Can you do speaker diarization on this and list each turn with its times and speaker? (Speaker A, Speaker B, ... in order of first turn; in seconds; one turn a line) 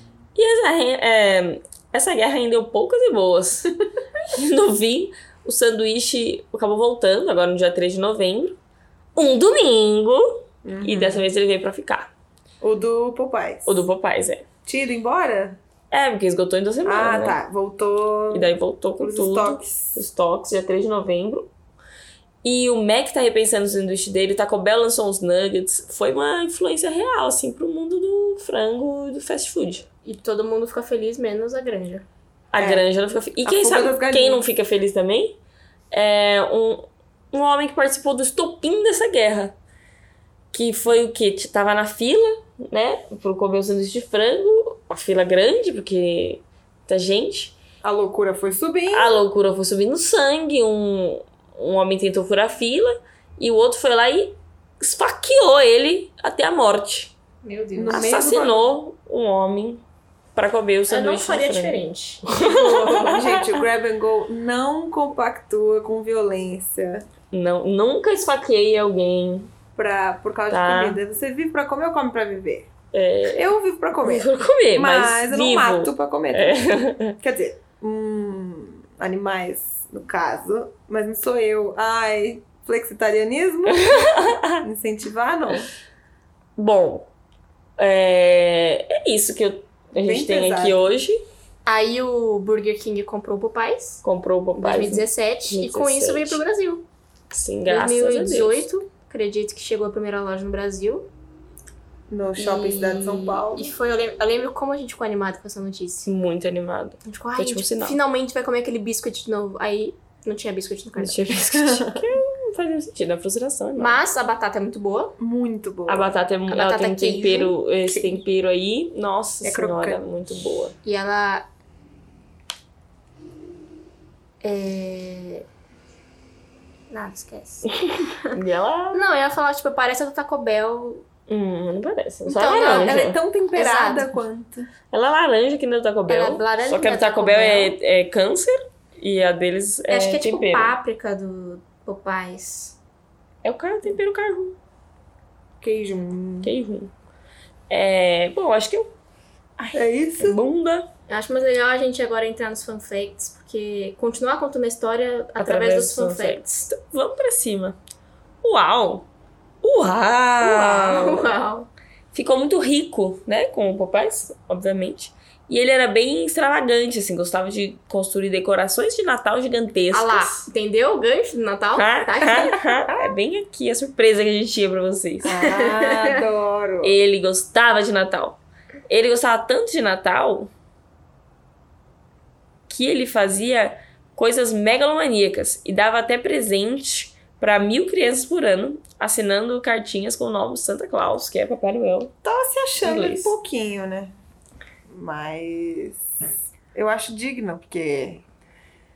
Speaker A: 0.3-8.6
Speaker A: 9.2-12.1
Speaker B: 10.6-11.2
Speaker B: 12.6-13.8
Speaker A: 13.7-14.4
Speaker B: 14.7-15.6
Speaker A: 15.9-17.4
Speaker B: 16.8-20.0
Speaker A: 18.3-21.5
Speaker A: 22.4-29.9
Speaker C: 30.0-32.0
Speaker A: 32.5-35.4
Speaker B: 32.6-32.8
Speaker B: 33.4-34.4
Speaker A: 35.9-39.5
Speaker A: 40.5-47.5
Speaker B: 47.8-49.2
Speaker A: 48.9-57.1
Speaker C: 57.4-58.1
Speaker B: 57.7-58.7
Speaker A: 57.9-59.8
Speaker A: 60.4-63.6
Speaker C: 60.9-62.2
Speaker B: 62.3-67.1
Speaker A: 67.3-69.5
Speaker B: 69.8-72.7
Speaker A: 70.5-71.0
Speaker A: 72.9-73.5
Speaker B: 73.3-85.7
Speaker A: 74.0-77.1
Speaker A: 83.7-84.6
Speaker A: 86.6-87.1
Speaker A: 87.8-91.2
Speaker B: 90.0-90.9
Speaker C: 91.7-94.0
Speaker A: 94.0-96.4
Speaker C: 94.5-96.8
Speaker A: 97.3-98.7
Speaker C: 97.7-101.1
Speaker B: 102.1-103.7
Speaker C: 102.4-106.1
Speaker A: 106.0-108.0
Speaker C: 107.0-111.4
Speaker A: 111.0-114.0
Speaker B: 111.6-112.0
Speaker C: 113.8-115.2
Speaker B: 115.2-116.2
Speaker A: 115.9-120.7
Speaker C: 116.5-117.6
Speaker B: 119.4-120.0
Speaker C: 120.8-121.5
Speaker C: 124.4-125.5
Speaker C: 126.9-128.3
Speaker A: 127.7-129.0
Speaker C: 128.9-131.1
Speaker A: 131.3-133.2
Speaker C: 132.3-133.0
Speaker B: 132.6-134.7
Speaker C: 133.5-134.1
Speaker A: 134.9-140.8
Speaker C: 136.1-137.7
Speaker C: 139.9-142.8
Speaker A: 143.4-144.6
Speaker B: 145.6-146.5
Speaker A: 146.4-146.9
Speaker A: 147.7-148.9
Speaker B: 149.7-150.4
Speaker A: 150.2-150.9
Speaker C: 151.1-156.5
Speaker A: 155.4-157.8
Speaker A: 158.4-159.1
Speaker A: 159.6-161.3
Speaker C: 160.4-161.7
Speaker A: 162.1-170.5
Speaker C: 169.9-172.8
Speaker A: 171.8-175.3
Speaker B: 175.2-177.0
Speaker C: 175.3-176.2
Speaker A: 176.8-180.5
Speaker A: 182.7-192.1
Speaker B: 192.2-194.1
Speaker A: 192.8-193.3
Speaker B: 194.9-196.0
Speaker B: 196.7-198.2